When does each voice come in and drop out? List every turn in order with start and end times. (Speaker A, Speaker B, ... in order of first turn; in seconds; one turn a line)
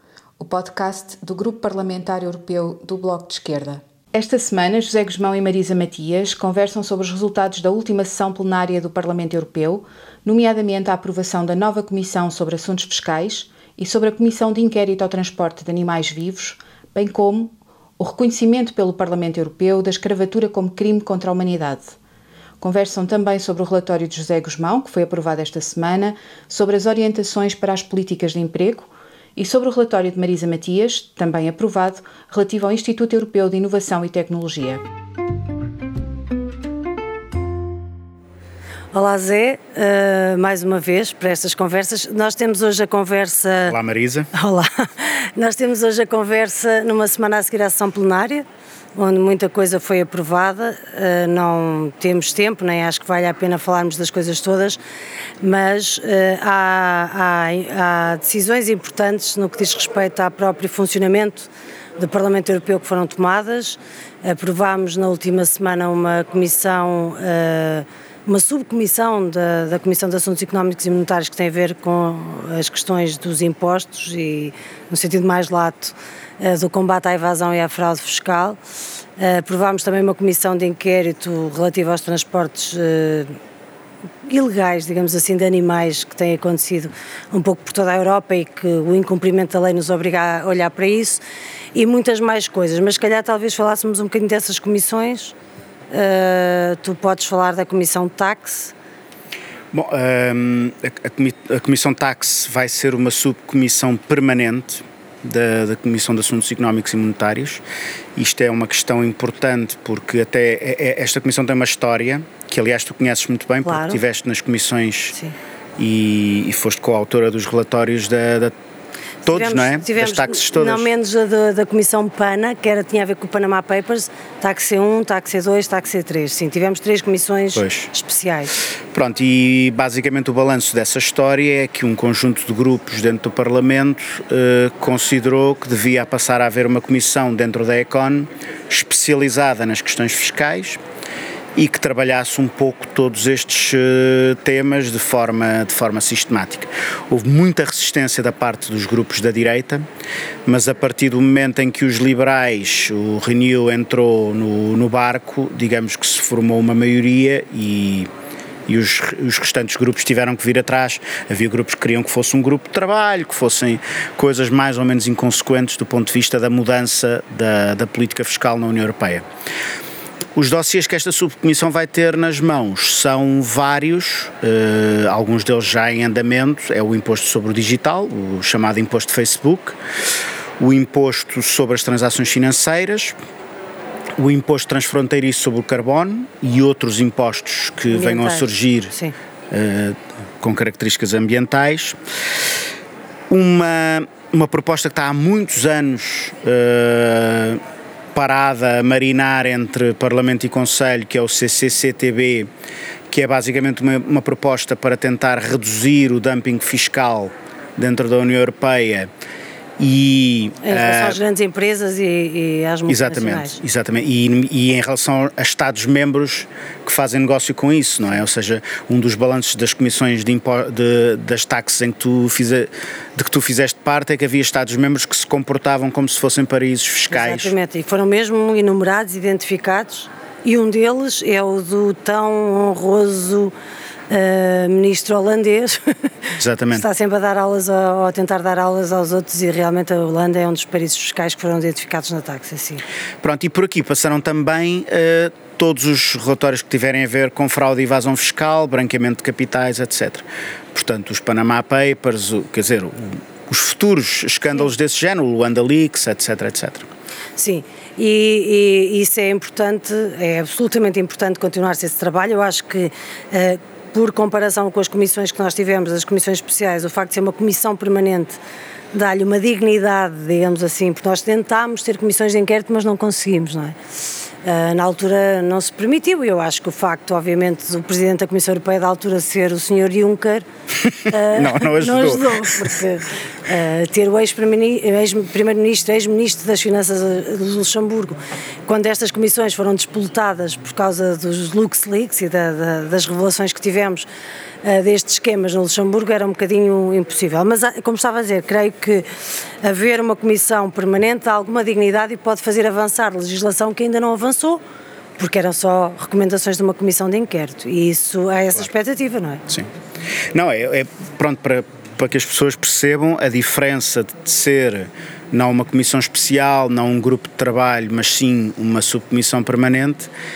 Speaker A: 0.4-22.0
Speaker A: 22.6-34.8
Speaker B: 38.9-43.8
Speaker C: 43.7-44.3
Speaker B: 44.3-48.5
Speaker B: 49.0-54.8
Speaker B: 55.4-78.6
Speaker B: 79.2-83.3
Speaker B: 84.3-91.2
Speaker B: 91.8-95.3
Speaker B: 95.9-98.7
Speaker C: 99.7-107.6
Speaker C: 108.2-115.2
Speaker B: 113.6-114.0
Speaker C: 115.8-118.5
Speaker C: 119.2-120.9
Speaker B: 119.2-128.6
Speaker C: 127.5-127.9
Speaker C: 128.9-140.8
Speaker C: 141.6-149.8
Speaker C: 150.5-158.1
Speaker C: 158.7-169.2
Speaker C: 170.3-179.8
Speaker C: 180.6-183.2
Speaker C: 184.2-188.9
Speaker B: 187.9-189.2
Speaker C: 189.5-192.0
Speaker C: 193.3-197.6
Speaker C: 198.1-202.5
Speaker C: 203.1-209.1
Speaker C: 209.8-211.2
Speaker B: 210.6-213.6
Speaker C: 212.9-227.5
Speaker B: 227.1-233.5
Speaker B: 234.1-242.8
Speaker C: 236.4-236.8
Speaker C: 243.2-256.9
Speaker B: 257.4-268.4
Speaker B: 268.9-273.8
Speaker B: 274.4-280.5
Speaker C: 280.8-282.8
Speaker B: 281.1-294.1
Speaker B: 294.6-299.1
Speaker B: 299.6-304.6
Speaker B: 305.2-309.4
Speaker C: 310.3-320.1